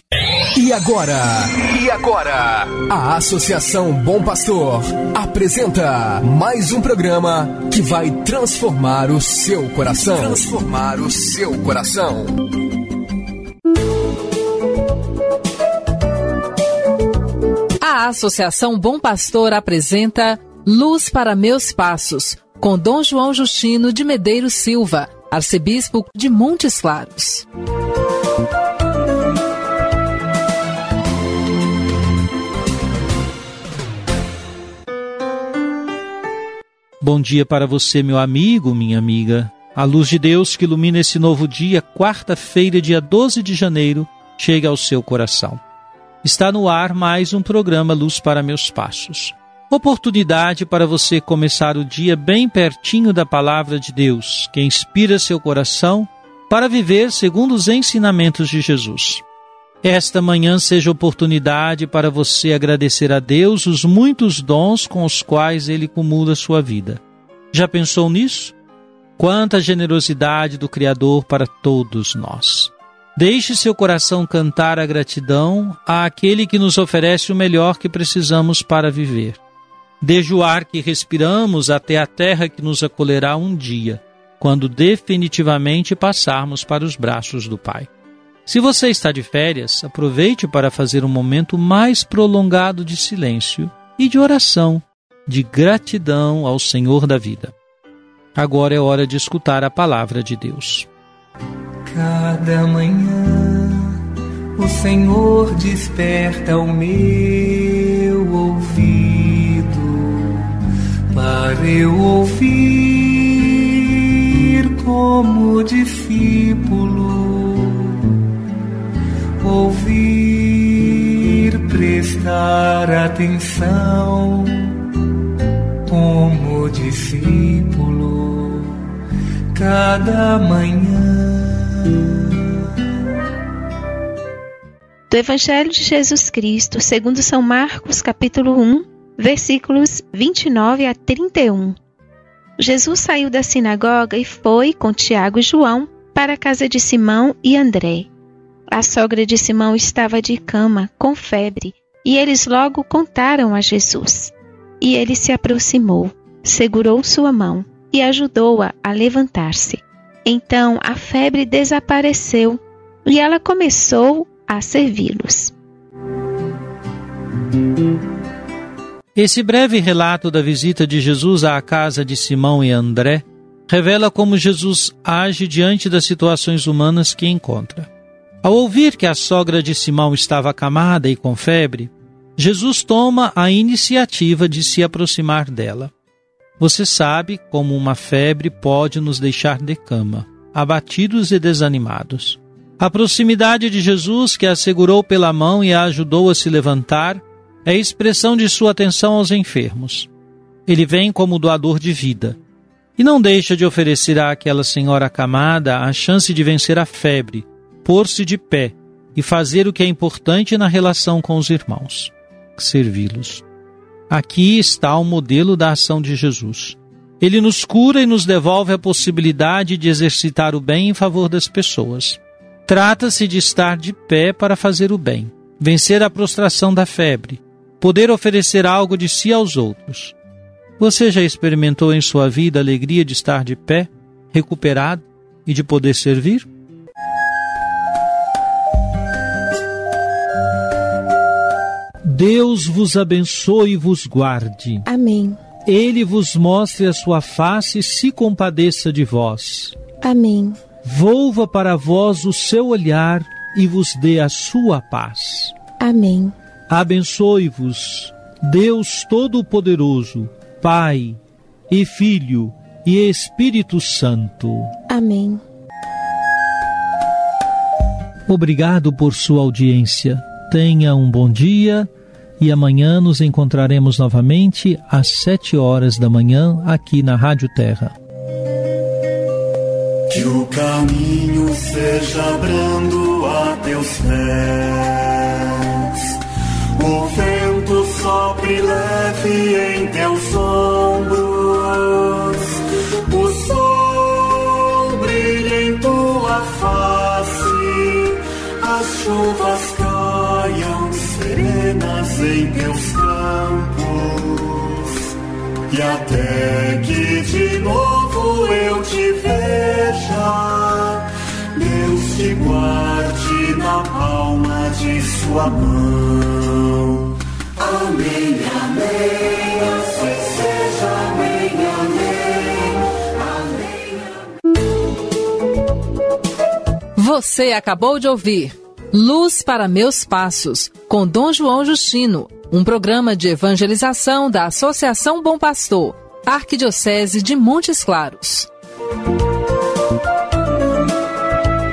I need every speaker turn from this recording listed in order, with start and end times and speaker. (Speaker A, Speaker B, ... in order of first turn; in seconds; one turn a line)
Speaker A: 0.5-12.4
Speaker B: 17.8-27.4
Speaker C: 37.0-45.6
Speaker C: 46.2-59.2
Speaker C: 59.8-67.0
Speaker C: 67.5-68.5
Speaker C: 69.2-79.4
Speaker C: 80.0-87.9
Speaker C: 88.5-97.5
Speaker C: 98.3-100.9
Speaker D: 101.8-104.0
Speaker D: 104.5-110.6
Speaker D: 111.1-118.2
Speaker D: 119.4-124.8
Speaker D: 125.9-128.8
Speaker D: 129.5-132.4
Speaker E: 135.1-141.8
Speaker E: 142.6-148.1
Speaker E: 148.7-165.5
Speaker C: 169.2-177.9
Speaker C: 178.4-185.9
Speaker C: 186.6-200.1
Speaker C: 200.7-202.4
Speaker C: 203.0-213.4
Speaker C: 214.1-230.2
Speaker C: 230.8-236.5
Speaker C: 242.1-244.8
Speaker E: 244.9-245.4
Speaker C: 245.7-249.7
Speaker E: 250.0-250.6
Speaker C: 250.8-255.6
Speaker E: 255.8-256.3
Speaker C: 256.7-264.7
Speaker E: 264.9-265.4
Speaker C: 268.3-277.9
Speaker F: 280.1-286.2
Speaker F: 286.8-305.1
Speaker F: 305.7-323.1
Speaker B: 326.9-338.5